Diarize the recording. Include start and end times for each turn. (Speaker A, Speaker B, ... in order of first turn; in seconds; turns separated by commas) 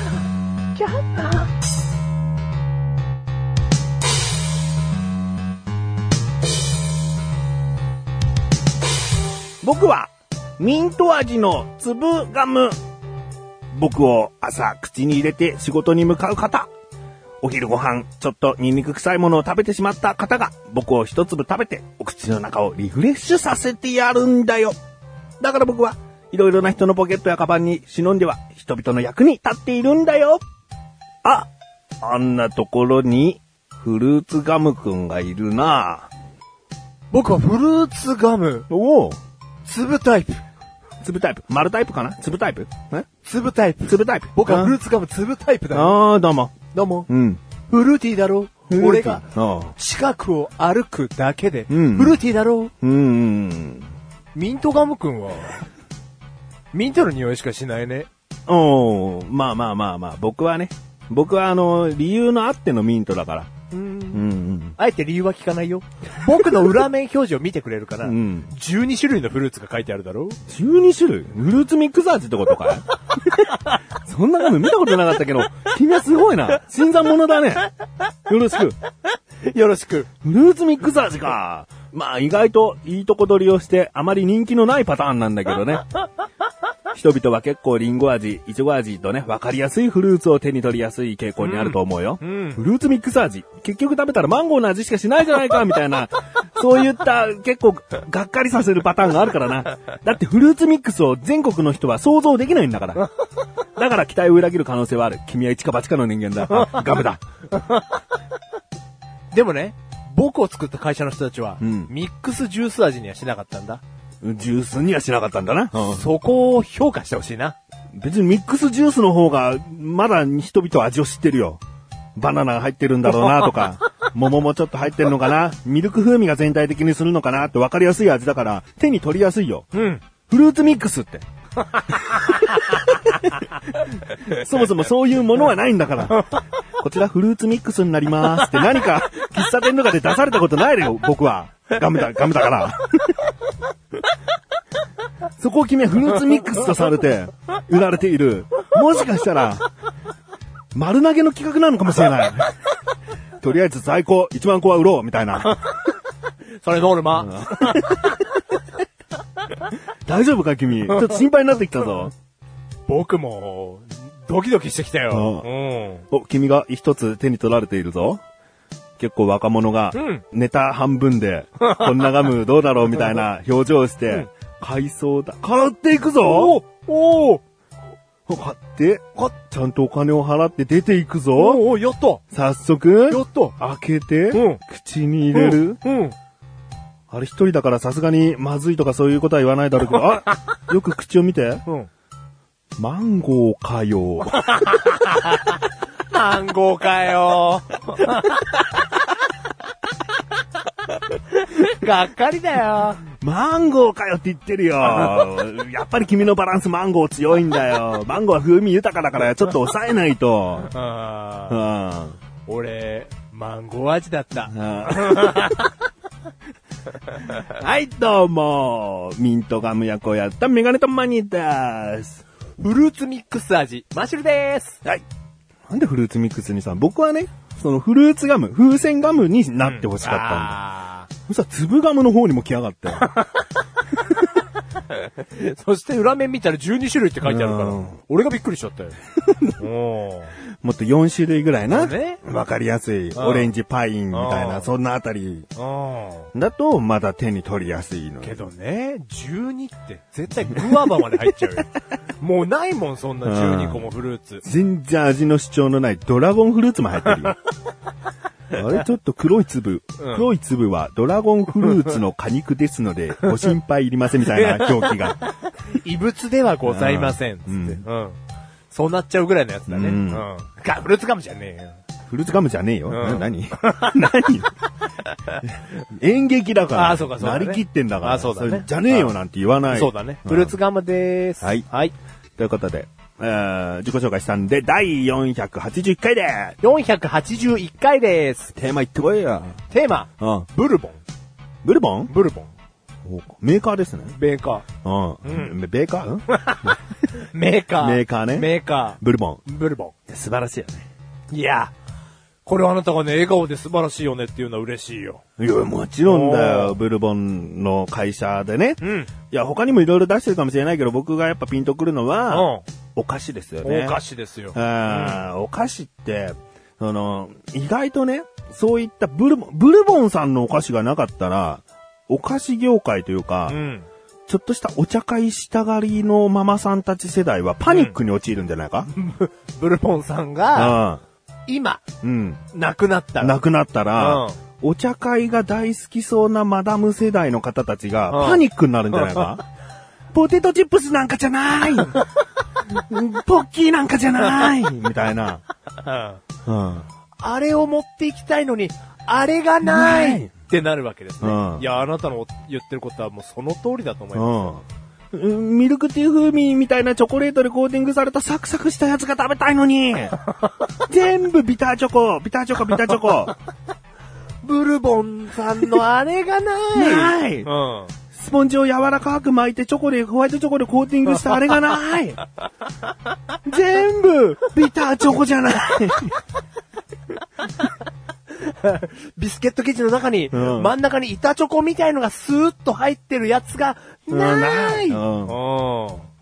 Speaker A: 0.7-1.5, Speaker B: 9.6-12.8, Speaker B: 13.7-16.7, Speaker B: 17.4-24.8, Speaker B: 25.4-30.4, Speaker B: 32.0-36.1, Speaker A: 37.1-38.7, Speaker B: 38.7-39.2, Speaker A: 39.6-40.4, Speaker B: 41.0-43.1, Speaker A: 43.2-46.0, Speaker B: 43.9-44.8, Speaker B: 45.7-47.4, Speaker A: 46.7-47.1, Speaker A: 47.7-52.7, Speaker B: 48.7-49.7, Speaker B: 51.7-52.2, Speaker B: 52.8-53.9, Speaker A: 54.3-55.6, Speaker A: 56.7-58.1, Speaker B: 58.5-63.5, Speaker A: 63.7-70.4, Speaker B: 64.1-64.8, Speaker B: 68.0-68.5, Speaker B: 70.5-73.4, Speaker B: 74.0-77.7, Speaker B: 78.3-78.8, Speaker A: 79.4-80.1, Speaker B: 80.2-85.8, Speaker B: 86.9-103.1, Speaker A: 91.4-92.6, Speaker B: 103.8-107.2, Speaker A: 109.3-113.8, Speaker B: 111.6-111.9, Speaker B: 114.2-116.0, Speaker A: 115.8-117.6, Speaker B: 117.9-121.6, Speaker B: 122.2-129.7, Speaker A: 123.2-123.5, Speaker A: 129.7-130.0, Speaker B: 130.3-131.2, Speaker A: 131.9-132.6, Speaker B: 132.2-133.3, Speaker B: 133.9-143.3, Speaker B: 145.4-149.7, Speaker B: 150.7-152.5, Speaker B: 153.4-155.6, Speaker A: 156.6-158.0, Speaker B: 157.2-158.2, Speaker B: 160.1-162.1, Speaker A: 162.9-166.0, Speaker B: 165.1-165.5, Speaker B: 166.1-168.2, Speaker B: 169.0-176.6, Speaker A: 169.9-170.2, Speaker A: 171.6-172.1, Speaker A: 176.2-177.4, Speaker B: 178.3-181.6, Speaker A: 181.3-182.2, Speaker B: 182.3-185.8, Speaker A: 183.1-183.6, Speaker A: 184.3-184.6, Speaker A: 185.3-186.1, Speaker B: 187.1-191.6, Speaker B: 192.8-194.4, Speaker A: 194.3-198.8, Speaker A: 201.1-203.0, Speaker B: 203.1-210.7, Speaker A: 204.8-205.2, Speaker A: 210.7-211.6, Speaker B: 211.5-212.2, Speaker A: 212.4-215.7, Speaker B: 214.5-215.7, Speaker B: 217.3-222.2, Speaker A: 222.6-224.8, Speaker B: 225.7-230.6, Speaker A: 229.6-231.1, Speaker B: 231.3-233.1, Speaker A: 233.0-233.4, Speaker A: 234.9-238.9, Speaker B: 237.2-237.9, Speaker B: 239.2-239.5, Speaker A: 239.6-240.3, Speaker B: 240.6-245.5, Speaker A: 241.7-242.2, Speaker A: 243.1-243.5, Speaker A: 244.1-244.7, Speaker A: 245.6-246.3, Speaker B: 246.3-248.4, Speaker A: 248.2-254.4, Speaker B: 253.2-253.8, Speaker B: 254.4-257.4, Speaker B: 258.5-265.2, Speaker A: 260.0-260.3, Speaker A: 264.2-268.2, Speaker B: 266.6-267.8, Speaker A: 268.7-271.8, Speaker B: 269.7-270.2, Speaker B: 272.1-274.5, Speaker A: 272.9-274.1, Speaker B: 275.5-280.6, Speaker A: 276.7-279.1, Speaker A: 279.7-281.9, Speaker B: 281.4-281.6, Speaker B: 282.4-286.6, Speaker A: 286.6-288.5, Speaker B: 288.6-289.6, Speaker A: 289.7-291.0, Speaker B: 290.2-290.5, Speaker B: 291.6-292.1, Speaker A: 292.1-292.5, Speaker B: 293.1-294.1, Speaker A: 294.1-294.6, Speaker B: 294.8-296.8, Speaker A: 295.2-295.5, Speaker A: 296.3-299.9, Speaker B: 297.8-299.4, Speaker B: 300.1-300.9, Speaker A: 301.3-301.7, Speaker A: 302.4-305.2, Speaker B: 305.4-314.0, Speaker A: 306.0-306.8, Speaker A: 308.8-309.1, Speaker A: 312.3-312.6, Speaker A: 313.6-315.2, Speaker B: 314.5-323.6, Speaker A: 323.5-323.9, Speaker B: 324.3-328.9, Speaker A: 327.7-328.0, Speaker A: 328.9-330.8, Speaker B: 330.5-331.0, Speaker A: 331.5-331.8, Speaker B: 332.0-332.4, Speaker A: 332.5-333.4, Speaker B: 333.2-339.4, Speaker A: 333.9-334.4, Speaker A: 338.1-338.4, Speaker A: 338.9-339.3, Speaker B: 340.1-342.1, Speaker B: 342.6-345.4, Speaker A: 345.8-346.2, Speaker B: 346.4-346.9, Speaker A: 347.2-354.5, Speaker B: 349.6-350.3, Speaker B: 351.2-351.6, Speaker B: 354.1-360.2, Speaker B: 360.8-363.3, Speaker A: 364.4-367.9, Speaker B: 366.7-367.5, Speaker B: 368.1-372.2, Speaker B: 373.4-376.1, Speaker A: 378.3-386.1, Speaker B: 380.3-380.7, Speaker B: 384.1-385.4